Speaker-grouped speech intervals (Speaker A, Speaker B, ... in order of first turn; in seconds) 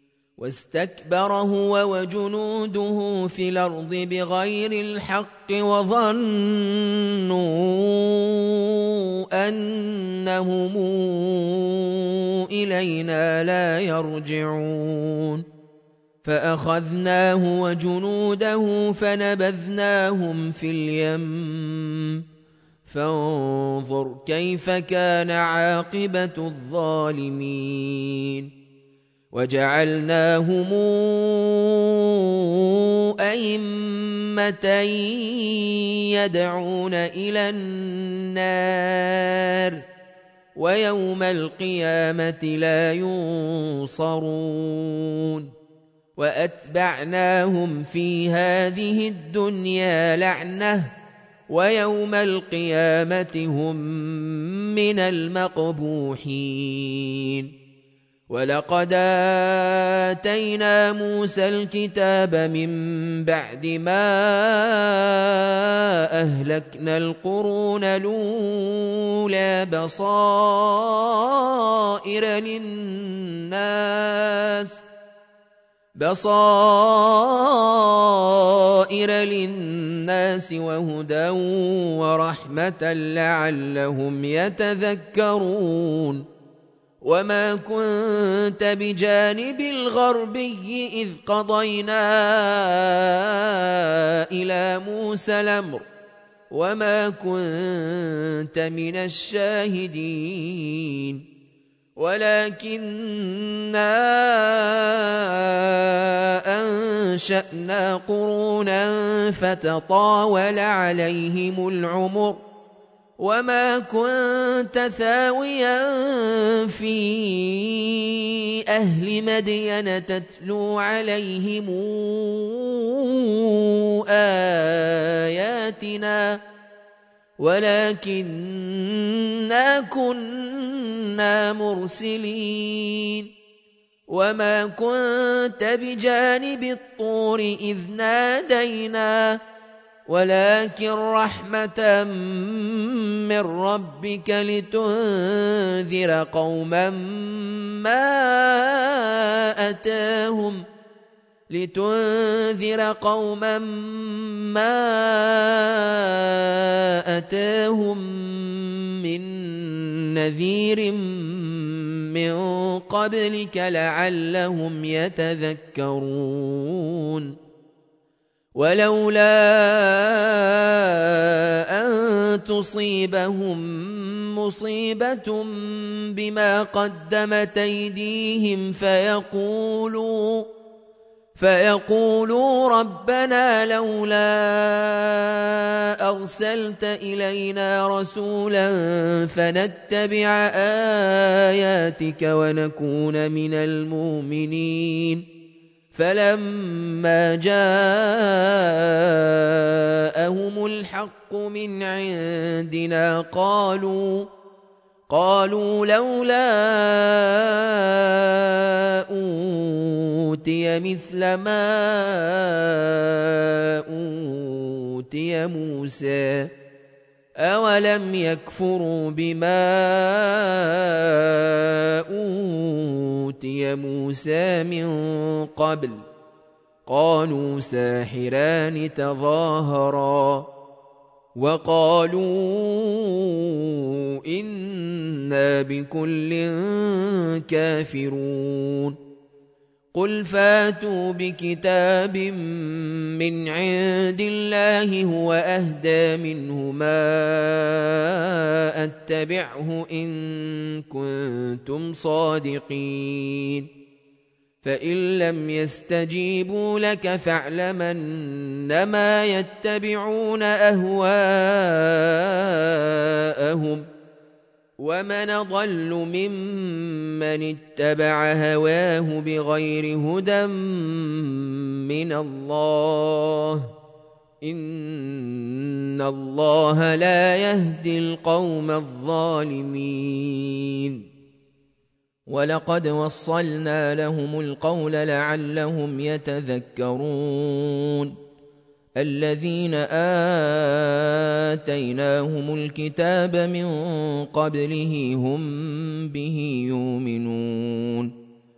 Speaker A: 0.4-15.4, 16.2-22.2, 22.9-28.5, 29.3-39.8, 40.5-45.5, 46.2-50.9, 51.5-57.5, 58.3-74.8, 76.0-86.2, 87.0-95.9, 96.5-101.2, 102.0-112.4, 113.2-126.4, 127.4-133.3, 134.1-139.4, 140.1-150.6, 151.5-167.3, 168.5-180.5, 181.3-195.2, 195.9-204.3, 205.1-216.5, 217.4-226.0, 226.8-230.5, 231.3-239.0, 239.9-253.7, 254.6-263.9, 264.8-273.7, 274.4-281.1, 282.3-288.1, 289.0-298.1